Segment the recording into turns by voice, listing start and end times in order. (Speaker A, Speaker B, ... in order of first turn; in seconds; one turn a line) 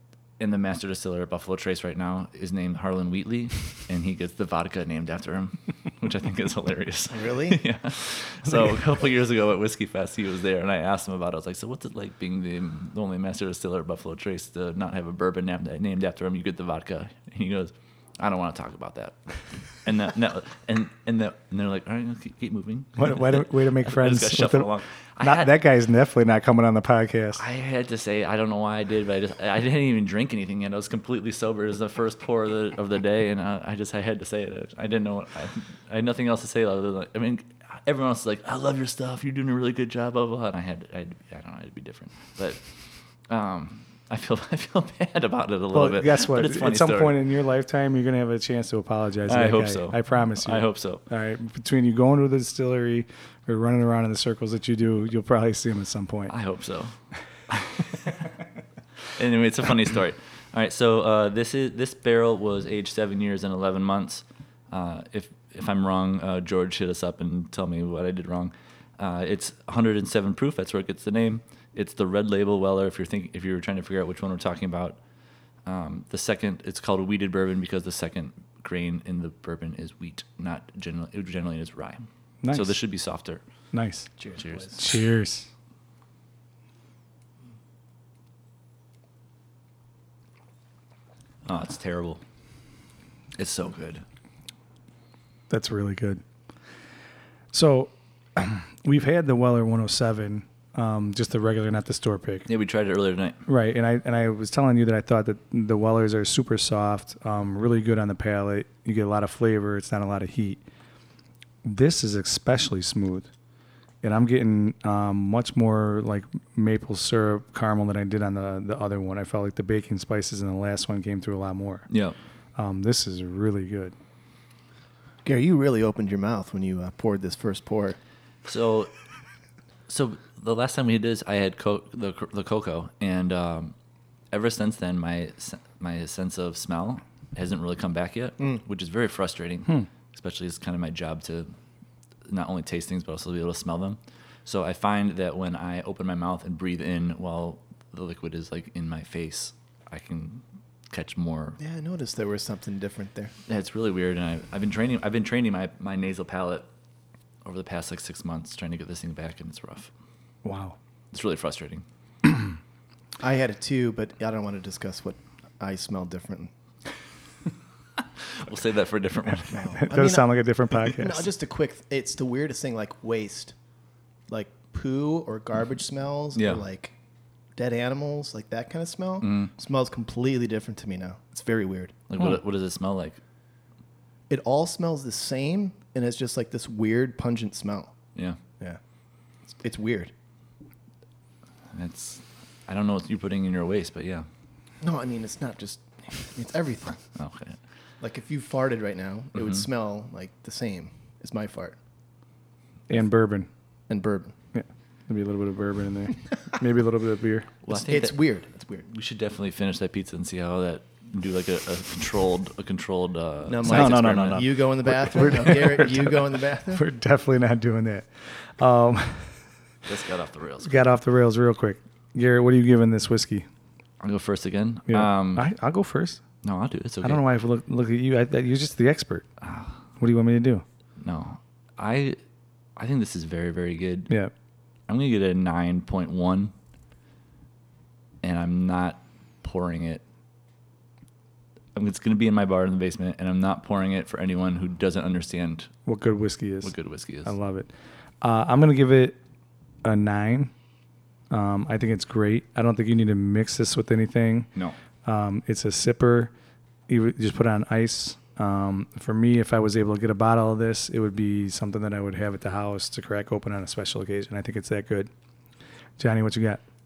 Speaker A: 0.4-25.6
Speaker B: 7.1-7.6
Speaker C: 23.0-24.7
Speaker C: 25.2-27.4
Speaker A: 27.4-42.7
Speaker A: 43.3-47.2
Speaker C: 45.7-56.3
Speaker A: 49.3-51.0
Speaker A: 56.3-56.9
Speaker A: 57.5-58.3
Speaker A: 59.1-75.0
Speaker A: 75.7-83.4
Speaker C: 82.4-82.7
Speaker C: 83.7-84.1
Speaker B: 84.2-84.7
Speaker A: 84.3-84.8
Speaker C: 84.8-85.5
Speaker A: 91.5-92.2
Speaker A: 93.4-94.0
Speaker C: 95.5-96.2
Speaker C: 97.5-102.5
Speaker A: 102.5-103.4
Speaker C: 103.5-110.6
Speaker C: 111.6-113.3
Speaker C: 114.0-121.9
Speaker A: 121.9-122.2
Speaker C: 122.6-124.0
Speaker B: 125.2-128.0
Speaker A: 128.5-128.9
Speaker A: 129.9-133.7
Speaker A: 134.3-141.5
Speaker A: 142.3-151.6
Speaker B: 151.6-153.3
Speaker A: 153.5-156.7
Speaker A: 157.4-159.9
Speaker C: 160.4-160.8
Speaker A: 161.1-161.8
Speaker B: 163.2-166.5
Speaker A: 168.3-169.7
Speaker B: 169.5-173.6
Speaker C: 169.8-171.3
Speaker B: 174.3-176.9
Speaker A: 176.4-176.6
Speaker B: 177.6-182.0
Speaker A: 179.2-179.5
Speaker A: 182.1-183.2
Speaker B: 184.3-187.9
Speaker B: 189.6-190.1
Speaker A: 191.7-194.3
Speaker B: 194.8-197.0
Speaker A: 197.2-197.6
Speaker B: 198.0-201.8
Speaker A: 199.4-199.6
Speaker C: 202.9-203.5
Speaker B: 203.9-204.3
Speaker C: 204.5-207.5
Speaker A: 207.6-208.2
Speaker B: 207.7-208.8
Speaker A: 208.9-214.5
Speaker B: 213.5-216.8
Speaker C: 213.7-219.4
Speaker A: 219.9-220.8
Speaker C: 220.6-223.5
Speaker A: 224.0-225.5
Speaker C: 224.9-226.2
Speaker A: 226.4-227.2
Speaker C: 227.0-229.3
Speaker A: 229.4-229.8
Speaker C: 230.0-230.7
Speaker A: 231.0-232.2
Speaker A: 232.8-234.1
Speaker A: 234.9-236.5
Speaker A: 238.2-240.0
Speaker A: 241.8-245.7
Speaker C: 245.9-246.7
Speaker A: 246.6-247.3
Speaker C: 247.2-247.7
Speaker C: 248.2-249.2
Speaker C: 249.8-250.5
Speaker C: 251.3-254.5
Speaker C: 255.0-256.3
Speaker C: 256.9-265.1
Speaker C: 266.0-266.6